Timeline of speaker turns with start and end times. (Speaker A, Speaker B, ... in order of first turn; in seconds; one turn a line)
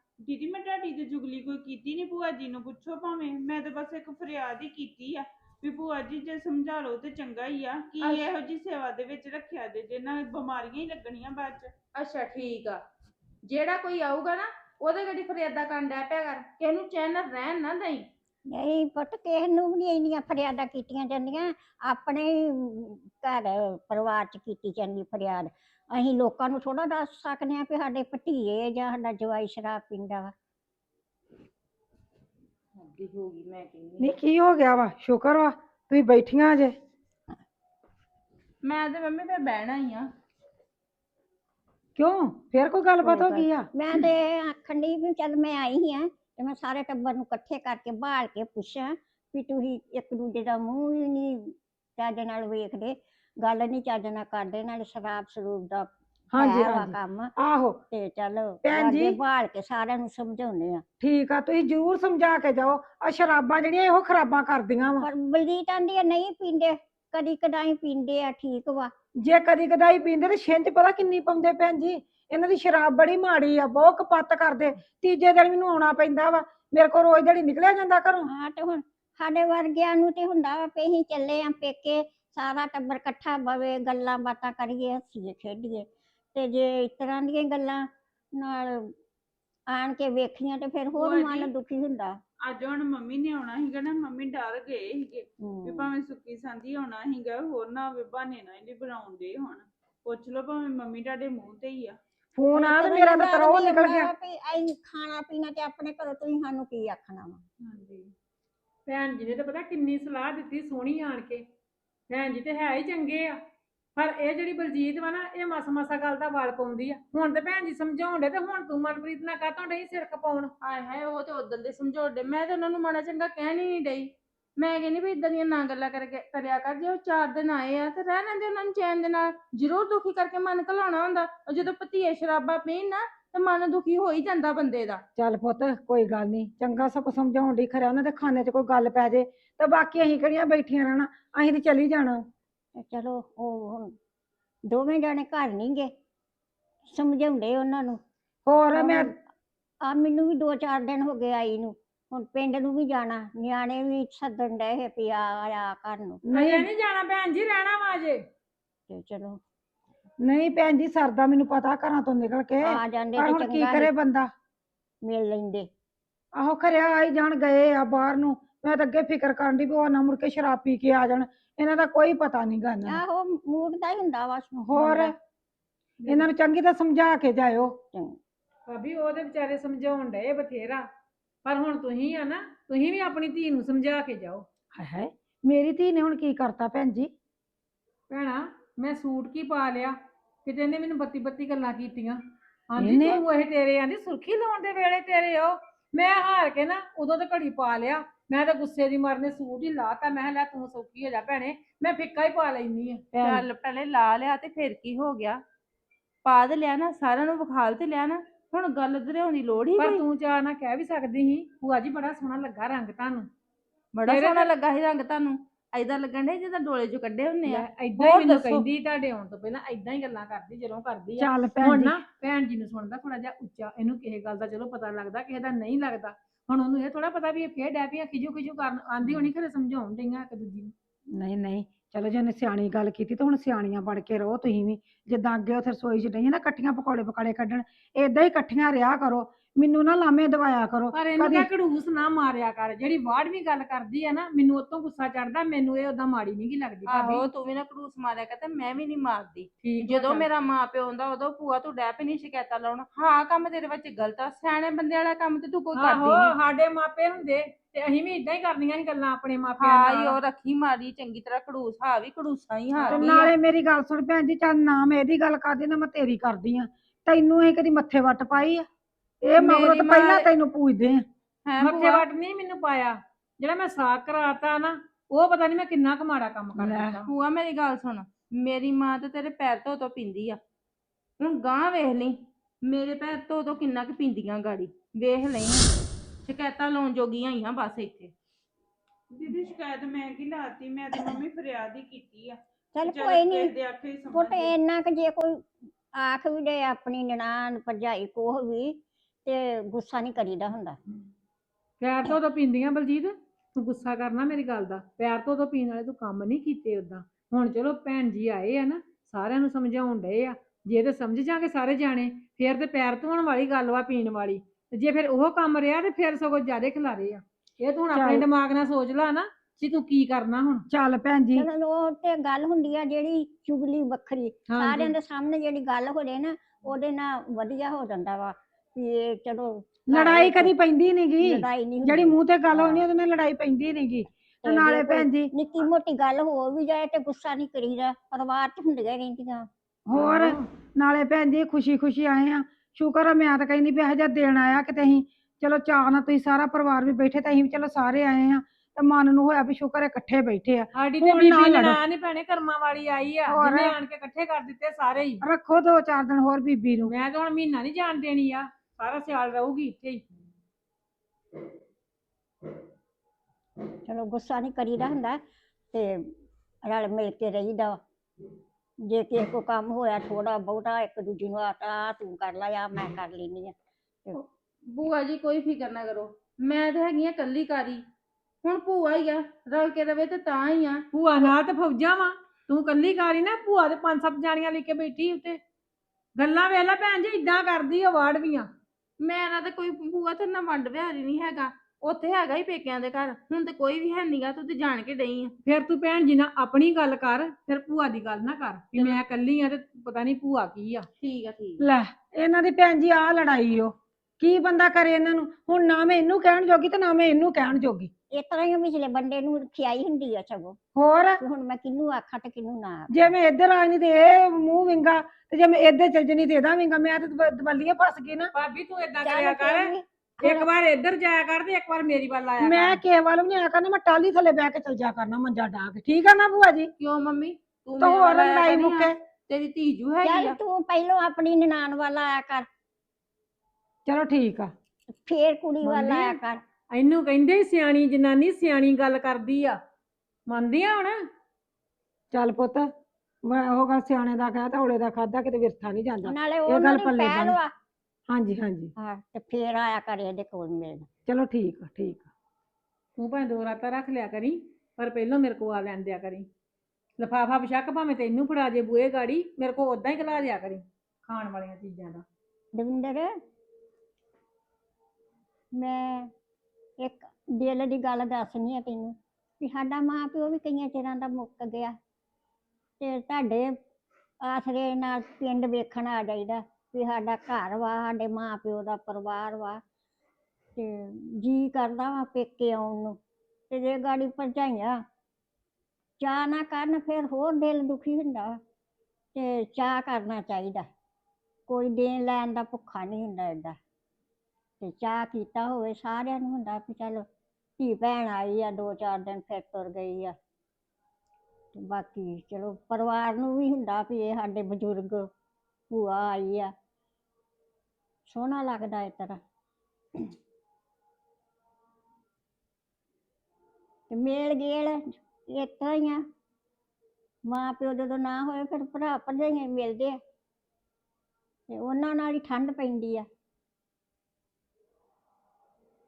Speaker A: 0.2-11.7
Speaker B: 12.0-12.8
Speaker B: 13.5-18.1
Speaker C: 18.5-30.3
Speaker B: 32.8-34.2
Speaker D: 34.0-36.8
Speaker B: 38.6-40.1
Speaker D: 42.0-44.0
Speaker C: 43.0-57.3
Speaker D: 56.3-57.8
Speaker C: 57.9-60.8
Speaker D: 58.6-59.2
Speaker D: 61.0-65.1
Speaker C: 65.0-68.9
Speaker D: 69.2-78.3
Speaker C: 78.3-89.0
Speaker C: 89.7-92.2
Speaker A: 90.9-91.5
Speaker A: 92.5-102.0
Speaker C: 95.4-95.9
Speaker D: 102.4-104.1
Speaker C: 102.5-107.4
Speaker E: 107.6-108.1
Speaker E: 108.9-111.5
Speaker E: 112.1-113.4
Speaker E: 114.0-120.5
Speaker B: 120.6-135.0
Speaker D: 135.2-142.3
Speaker C: 142.8-143.9
Speaker C: 144.7-145.9
Speaker C: 146.9-148.0
Speaker D: 148.5-149.1
Speaker C: 148.8-149.2
Speaker C: 149.8-156.2
Speaker D: 156.3-156.7
Speaker E: 156.3-158.2
Speaker C: 158.9-159.4
Speaker D: 160.2-164.3
Speaker C: 162.6-163.9
Speaker C: 165.0-165.7
Speaker D: 166.4-173.0
Speaker C: 172.9-175.1
Speaker D: 174.6-175.2
Speaker D: 176.1-177.8
Speaker E: 178.7-180.9
Speaker E: 181.4-184.4
Speaker D: 184.8-187.1
Speaker E: 188.1-203.2
Speaker D: 192.8-193.2
Speaker B: 203.2-205.4
Speaker B: 206.2-210.0
Speaker E: 209.8-213.3
Speaker B: 214.0-218.7
Speaker E: 214.1-214.5
Speaker E: 217.5-230.7
Speaker D: 221.2-222.0
Speaker D: 229.0-229.3
Speaker D: 231.2-241.5
Speaker E: 240.9-247.3
Speaker B: 246.9-256.3
Speaker E: 249.6-250.3
Speaker E: 255.7-260.2
Speaker B: 259.6-263.3
Speaker E: 262.8-263.1
Speaker D: 262.9-268.7
Speaker D: 269.2-271.1
Speaker B: 269.4-270.3
Speaker B: 271.5-272.0
Speaker E: 271.6-277.1
Speaker D: 276.6-277.0
Speaker B: 277.1-280.4
Speaker B: 281.2-285.7
Speaker B: 286.2-288.1
Speaker A: 289.1-294.5
Speaker C: 292.8-293.5
Speaker C: 294.1-300.8
Speaker E: 301.8-320.7
Speaker D: 317.9-318.3
Speaker D: 320.7-321.5
Speaker C: 321.4-330.5
Speaker E: 324.5-324.9
Speaker D: 329.9-335.3
Speaker C: 331.2-332.9
Speaker C: 334.4-340.4
Speaker D: 339.9-351.8
Speaker E: 350.8-355.2
Speaker D: 353.3-353.8
Speaker D: 355.2-356.9
Speaker E: 356.9-360.0
Speaker C: 363.9-365.2
Speaker C: 365.7-366.1
Speaker C: 366.6-367.8
Speaker C: 368.8-373.5
Speaker B: 374.1-377.8
Speaker B: 378.4-380.9
Speaker E: 380.9-385.4
Speaker E: 386.2-388.5
Speaker B: 389.0-395.4
Speaker E: 395.4-400.9
Speaker B: 398.8-399.0
Speaker B: 401.0-401.6
Speaker D: 401.6-407.9
Speaker C: 408.1-410.6
Speaker D: 410.8-411.2
Speaker C: 411.2-412.9
Speaker D: 412.9-418.3
Speaker E: 418.4-422.8
Speaker C: 419.0-420.5
Speaker D: 422.4-426.7
Speaker B: 426.8-430.4
Speaker D: 427.8-429.0
Speaker C: 430.0-432.5
Speaker D: 433.9-434.5
Speaker C: 435.0-436.4
Speaker D: 435.6-436.2
Speaker E: 436.7-439.6
Speaker E: 440.3-441.0
Speaker D: 442.1-442.7
Speaker D: 443.2-447.4
Speaker C: 446.0-447.5
Speaker D: 448.1-448.7
Speaker C: 448.8-450.9
Speaker D: 451.1-452.1
Speaker E: 453.0-456.3
Speaker E: 457.0-462.1
Speaker C: 462.5-463.1
Speaker C: 465.5-466.1
Speaker C: 466.8-471.8
Speaker C: 472.8-473.6
Speaker C: 474.2-479.6
Speaker C: 480.6-483.0
Speaker C: 483.5-484.8
Speaker C: 486.0-488.4
Speaker C: 489.1-490.7
Speaker C: 491.5-493.6
Speaker C: 494.6-497.1
Speaker C: 497.6-500.2
Speaker C: 501.5-505.1
Speaker C: 505.7-506.5
Speaker C: 508.1-509.2
Speaker C: 513.9-516.1
Speaker C: 517.2-520.0
Speaker C: 521.5-523.1